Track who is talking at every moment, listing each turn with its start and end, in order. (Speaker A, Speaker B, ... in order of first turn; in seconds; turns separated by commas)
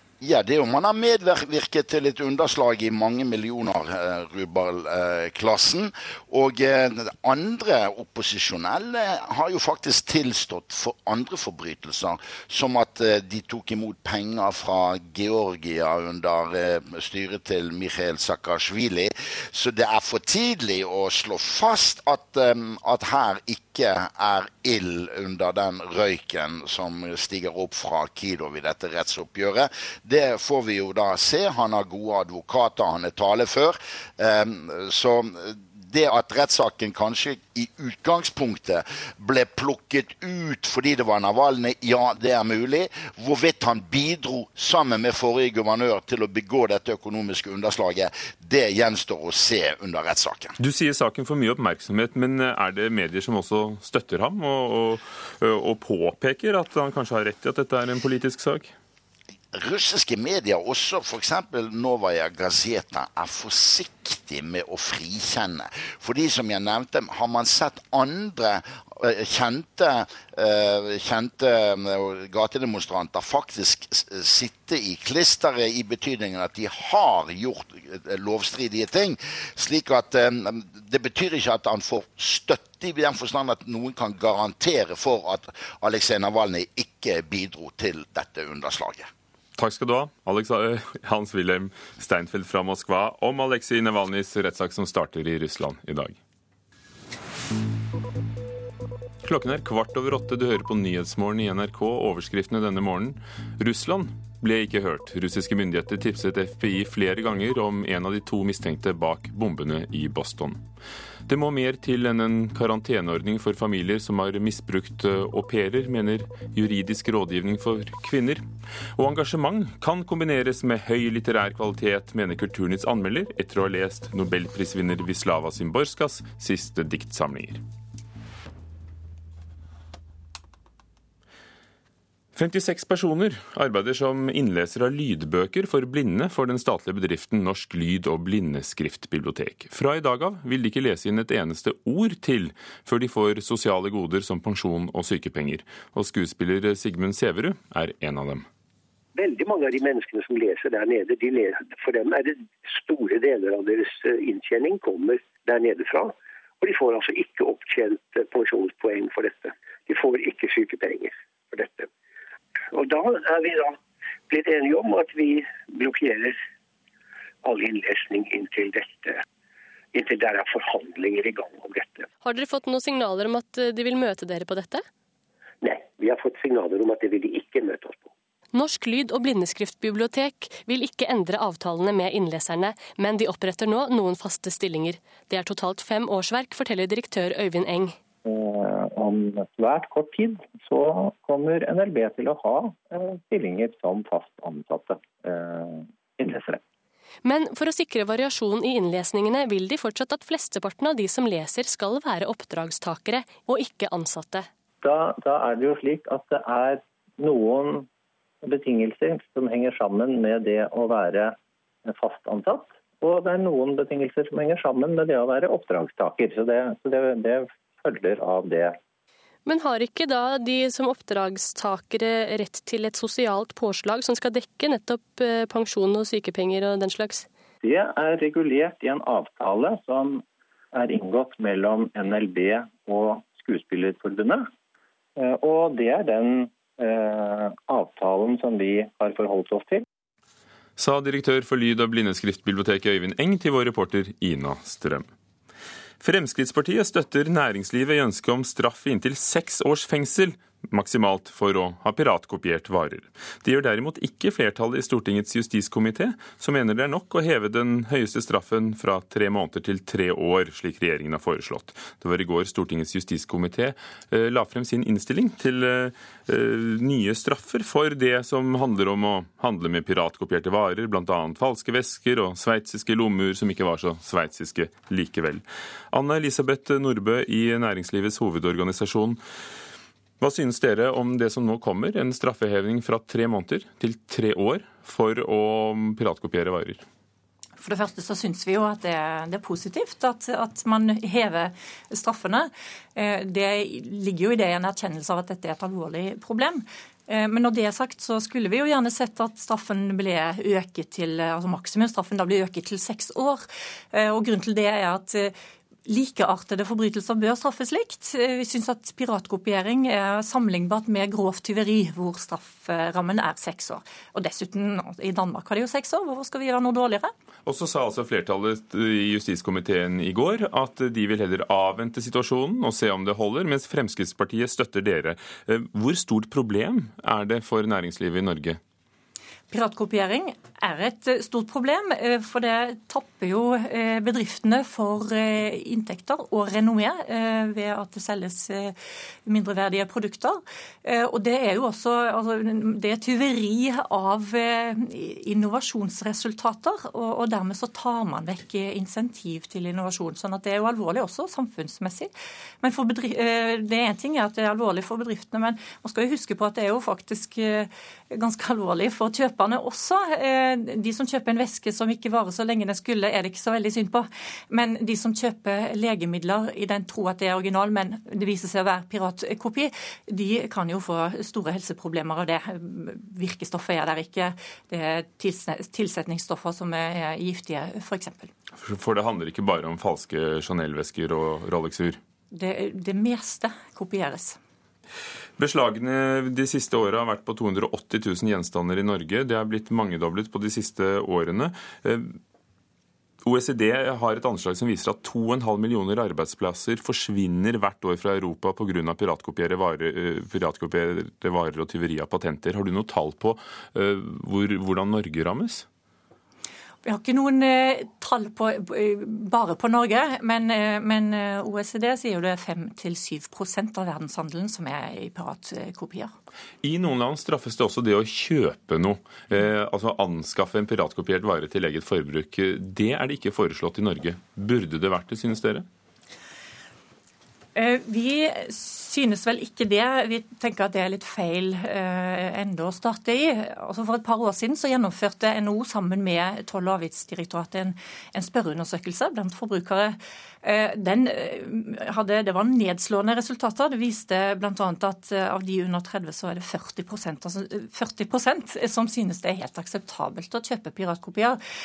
Speaker A: 0.2-50.5, Speaker B: 50.6-58.7, Speaker A: 59.5-89.1, Speaker B: 89.6-96.2, Speaker B: 99.2-110.6, Speaker B: 111.3-118.4, Speaker B: 119.0-127.6, Speaker B: 132.3-148.4, Speaker C: 149.1-161.9, Speaker C: 162.7-163.8, Speaker C: 164.3-166.4, Speaker C: 167.4-169.2, Speaker C: 169.9-172.1, Speaker D: 172.2-174.8, Speaker C: 175.6-178.1, Speaker D: 178.5-188.0, Speaker E: 188.2-196.6, Speaker D: 197.2-204.5, Speaker E: 204.8-207.9, Speaker E: 208.4-218.8, Speaker D: 219.4-227.3, Speaker E: 227.6-234.5, Speaker E: 235.2-239.8, Speaker B: 240.8-245.1, Speaker B: 246.0-279.2, Speaker B: 280.2-286.8, Speaker F: 287.6-305.3, Speaker F: 305.9-317.1, Speaker B: 317.4-328.6, Speaker F: 329.5-338.7, Speaker F: 339.2-352.1, Speaker F: 352.6-378.3, Speaker B: 378.6-382.0, Speaker F: 382.3-384.4, Speaker B: 385.4-392.2, Speaker B: 393.2-405.6, Speaker F: 406.8-416.1, Speaker B: 416.6-425.6, Speaker F: 427.6-451.4